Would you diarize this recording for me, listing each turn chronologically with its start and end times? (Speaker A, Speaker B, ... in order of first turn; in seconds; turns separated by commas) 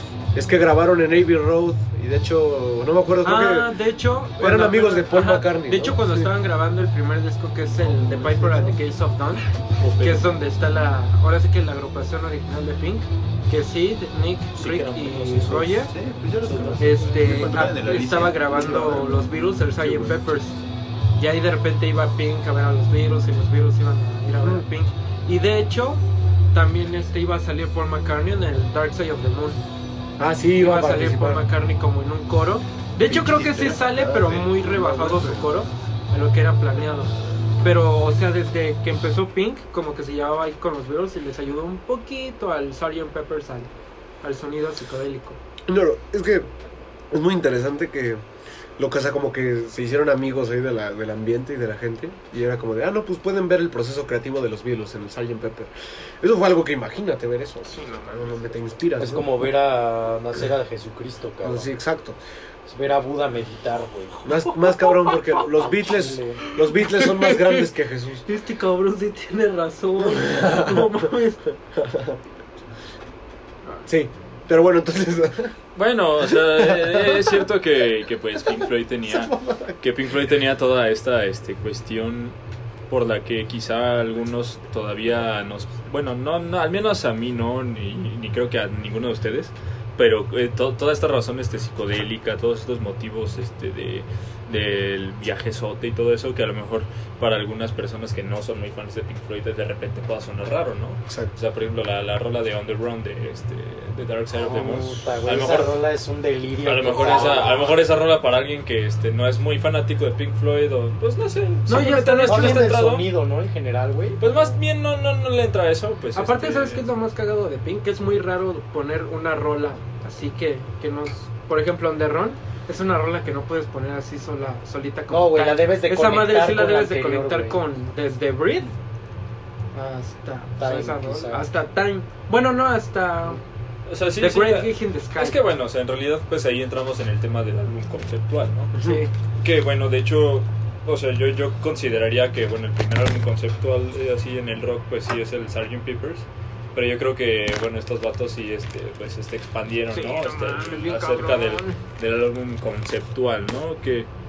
Speaker A: 0.3-3.7, Speaker B: 3.2-9.4, Speaker A: 4.4-6.3, Speaker A: 7.9-8.8, Speaker C: 9.8-10.3, Speaker B: 10.0-15.9, Speaker C: 14.7-15.3, Speaker D: 15.3-20.2, Speaker E: 16.5-16.8, Speaker C: 16.5-16.8, Speaker B: 16.8-20.6, Speaker B: 21.1-29.6, Speaker A: 24.4-24.6, Speaker A: 30.2-31.4, Speaker B: 30.6-43.7, Speaker D: 33.0-35.6, Speaker B: 44.2-45.4, Speaker A: 45.7-46.5, Speaker A: 47.1-48.2, Speaker A: 48.8-59.3, Speaker E: 59.0-61.7, Speaker A: 61.4-62.2, Speaker E: 62.6-64.2, Speaker A: 64.2-68.3, Speaker B: 64.8-65.3, Speaker E: 65.7-66.4, Speaker B: 66.6-67.7, Speaker B: 68.3-71.6, Speaker A: 70.0-71.0, Speaker A: 71.8-72.2, Speaker A: 73.8-75.5, Speaker C: 75.8-82.3, Speaker A: 76.3-77.5, Speaker A: 79.1-79.8, Speaker C: 82.9-105.8, Speaker A: 101.1-101.3, Speaker E: 104.3-107.5, Speaker C: 106.6-113.1, Speaker B: 111.7-112.6, Speaker E: 112.2-114.4, Speaker C: 114.2-116.8, Speaker B: 116.1-128.7, Speaker E: 125.1-127.6, Speaker B: 129.7-133.4, Speaker E: 130.6-131.5, Speaker C: 133.9-138.8, Speaker B: 134.2-135.4, Speaker B: 138.7-139.1, Speaker C: 139.4-154.1, Speaker B: 149.9-151.8